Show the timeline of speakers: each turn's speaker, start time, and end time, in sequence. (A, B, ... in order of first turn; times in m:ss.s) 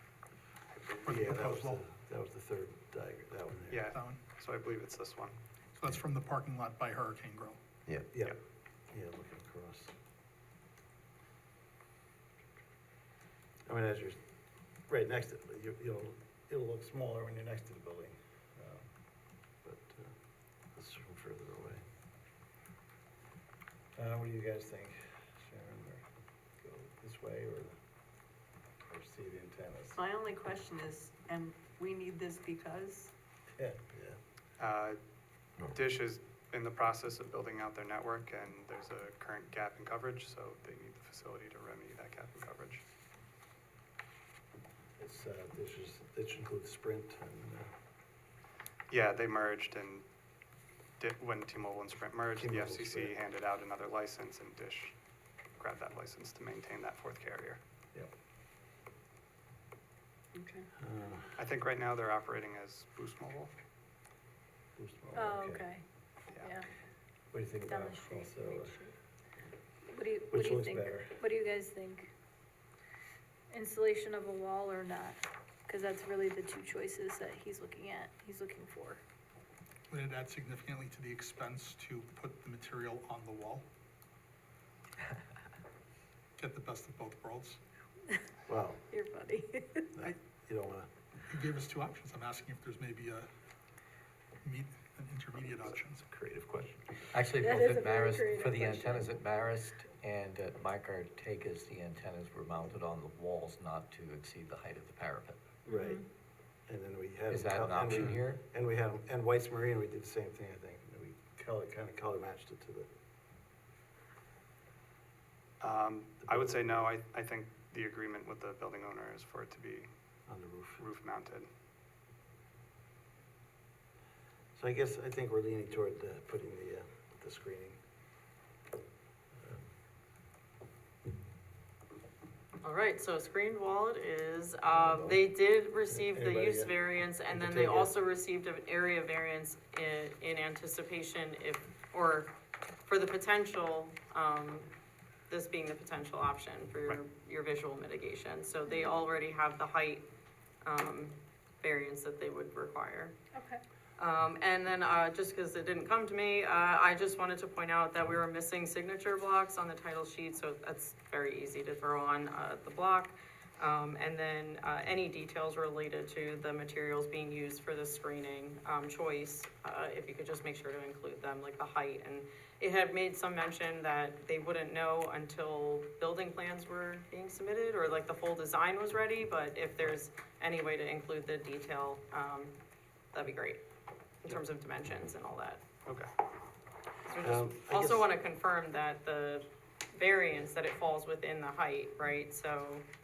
0:00.7-0:01.5 A
0:01.0-0:01.8 B
0:01.1-0:03.8 C
0:03.7-0:05.4 A
0:03.9-0:04.2 B
0:05.8-0:07.6 B
0:08.1-0:08.4 C
0:08.9-0:09.9 C
0:13.7-0:14.2 C
0:14.9-0:18.9 C
0:19.6-0:20.1 C
0:20.7-0:21.8 C
0:24.0-0:26.0 C
0:26.6-0:27.8 C
0:28.8-0:30.0 C
0:29.9-0:33.1 D
0:33.6-0:34.2 C
0:34.6-0:35.0 A
0:35.6-0:42.8 A
0:45.0-0:47.7 C
0:48.9-0:50.1 A
0:51.0-0:55.0 A
0:52.4-0:53.2 C
0:55.6-0:57.6 A
1:00.3-1:00.7 D
1:00.8-1:01.4 C
1:01.4-1:03.5 A
1:04.8-1:05.7 C
1:05.2-1:05.8 E
1:06.3-1:06.6 A
1:06.4-1:06.6 E
1:07.3-1:08.8 C
1:07.7-1:08.9 E
1:09.9-1:12.1 E
1:10.3-1:11.2 C
1:13.5-1:19.0 E
1:19.9-1:23.7 B
1:26.4-1:27.6 B
1:28.5-1:28.8 C
1:28.9-1:29.9 E
1:29.9-1:30.9 C
1:31.3-1:33.3 B
1:34.4-1:36.1 B
1:36.1-1:36.9 C
1:37.1-1:45.5 F
1:37.4-1:39.1 E
1:45.7-1:46.0 C
1:46.7-1:52.9 C
1:47.3-1:48.4 F
1:55.6-1:59.9 A
1:56.2-1:56.9 C
2:00.3-2:00.9 C
2:00.8-2:01.5 A
2:04.6-2:07.8 C
2:09.3-2:09.6 C
2:12.6-2:22.3 G
2:14.8-2:15.2 C
2:15.9-2:17.9 C
2:22.9-2:24.7 G
2:25.3-2:30.1 G
2:28.7-2:29.0 E
2:30.6-2:33.2 G
2:33.3-2:33.6 E
2:34.0-3:02.6 G
3:03.1-3:03.6 G
3:04.2-3:05.6 G
3:07.0-3:12.8 G
3:07.2-3:08.1 C